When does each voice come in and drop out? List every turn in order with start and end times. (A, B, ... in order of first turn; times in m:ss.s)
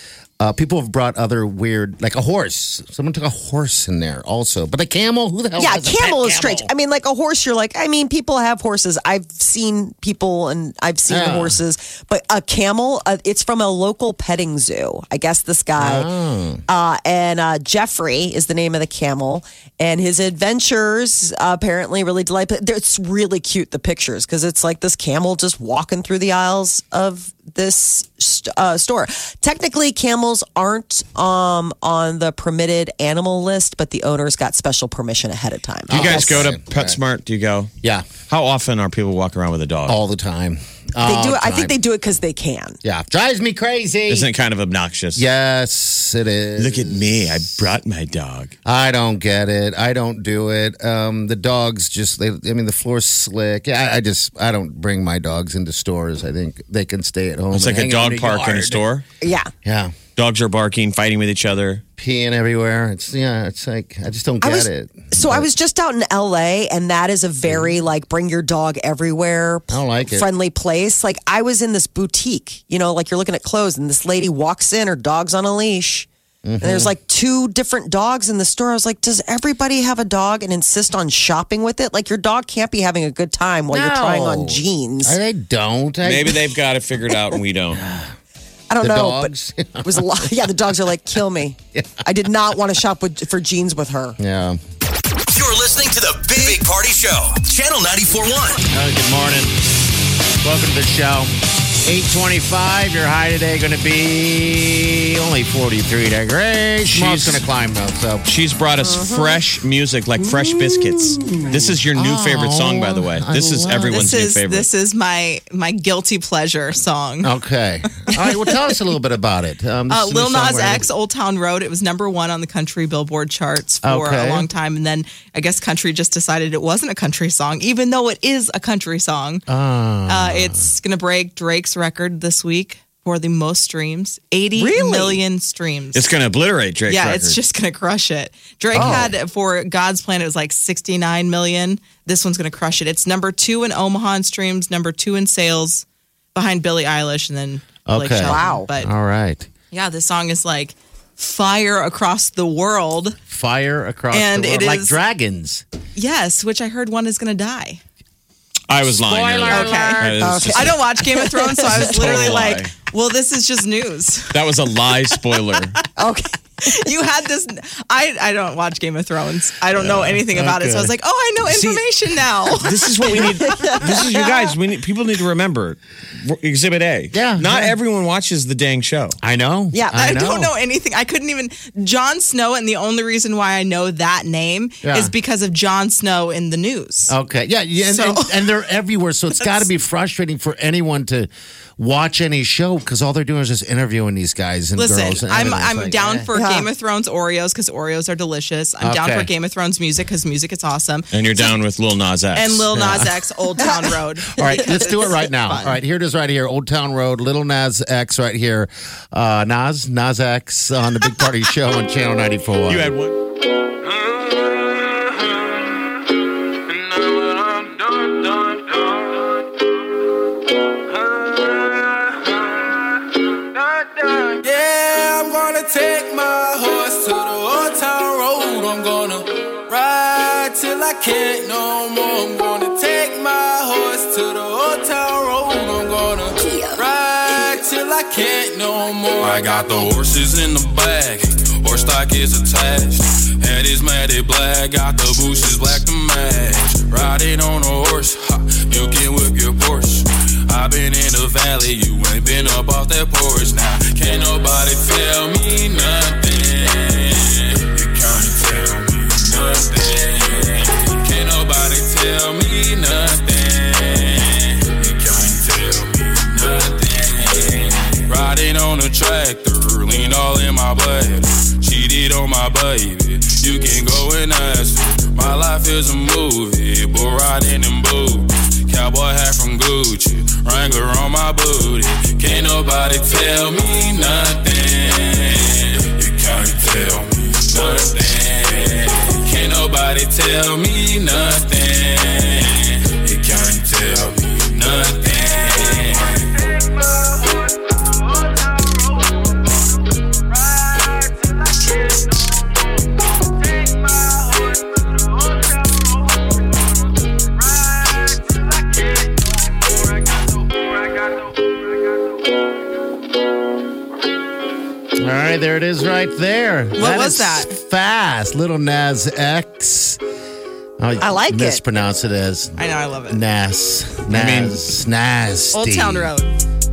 0:00.4-0:06.7 A
0:05.6-0:16.1 B
0:11.1-0:11.6 A
0:15.8-0:16.6 A
0:16.7-0:36.4 B
0:35.9-0:37.0 A
0:35.9-0:37.7 C
0:37.8-0:38.1 A
0:38.3-0:40.0 C
0:39.9-0:41.7 A
0:41.0-0:42.8 B
0:42.8-0:44.3 A
0:44.1-0:45.2 C
0:45.1-0:47.4 A
0:46.6-0:48.5 C
0:48.6-0:58.8 A
0:57.5-0:59.0 C
0:59.2-0:59.5 B
0:59.6-0:59.9 A
1:00.2-1:01.8 C
1:02.0-1:05.5 A
1:04.4-1:16.1 B
1:07.4-1:07.8 A
1:09.7-1:10.3 A
1:16.4-1:16.9 A
1:16.6-1:25.2 B
1:23.7-1:26.4 A
1:26.0-1:27.8 C
1:27.7-1:28.1 A
1:28.7-1:29.3 B
1:28.8-1:30.5 A
1:29.8-1:34.2 B
1:34.2-1:34.6 A
1:35.3-1:38.6 D
1:38.7-1:39.5 A
1:40.4-1:41.3 A
1:41.8-1:48.2 A
1:46.9-1:47.4 C
1:48.2-1:54.7 C
1:48.8-1:49.4 B
1:50.4-1:54.1 A
1:53.9-1:57.3 E
1:57.2-2:00.9 A
1:58.1-1:58.6 E
1:59.9-2:09.4 E
2:03.8-2:04.5 A
2:09.5-2:10.6 A
2:10.1-2:16.1 E
2:14.5-2:15.2 B
2:15.9-2:17.4 C
2:16.9-2:28.9 E
2:18.7-2:19.1 A
2:27.8-2:29.5 A
2:28.2-2:28.7 B
2:29.7-2:33.2 E
2:33.3-2:35.6 A
2:34.1-2:35.0 E
2:36.0-2:37.8 E
2:38.7-2:40.8 C
2:38.9-2:40.4 A
2:39.5-2:44.6 E
2:39.8-2:41.8 B
2:41.7-2:42.7 C
2:44.3-2:45.8 C
2:45.2-2:45.6 E
2:46.0-2:46.3 B
2:46.6-2:53.8 E
2:50.3-2:50.9 A
2:52.6-2:59.2 C
2:53.5-2:53.8 B
2:57.1-2:57.7 A
2:59.2-3:00.5 A
2:59.7-3:00.1 B
3:00.0-3:07.1 E
3:04.8-3:05.1 A
3:07.1-3:16.3 A
3:07.9-3:08.4 E
3:14.8-3:21.5 E
3:16.3-3:16.7 B
3:18.8-3:19.3 A
3:21.1-3:22.8 C
3:22.3-3:25.8 E
3:22.7-3:23.1 A
3:24.3-3:32.9 A
3:32.7-3:33.2 C
3:33.8-3:35.8 F
3:36.7-3:39.4 F
3:40.9-5:12.0 F
5:15.0-5:20.0 A
5:16.8-5:17.5 E
5:20.8-5:26.1 A
5:21.0-5:21.6 B
5:22.6-5:23.2 E
5:24.1-5:24.6 C
5:25.5-5:26.3 E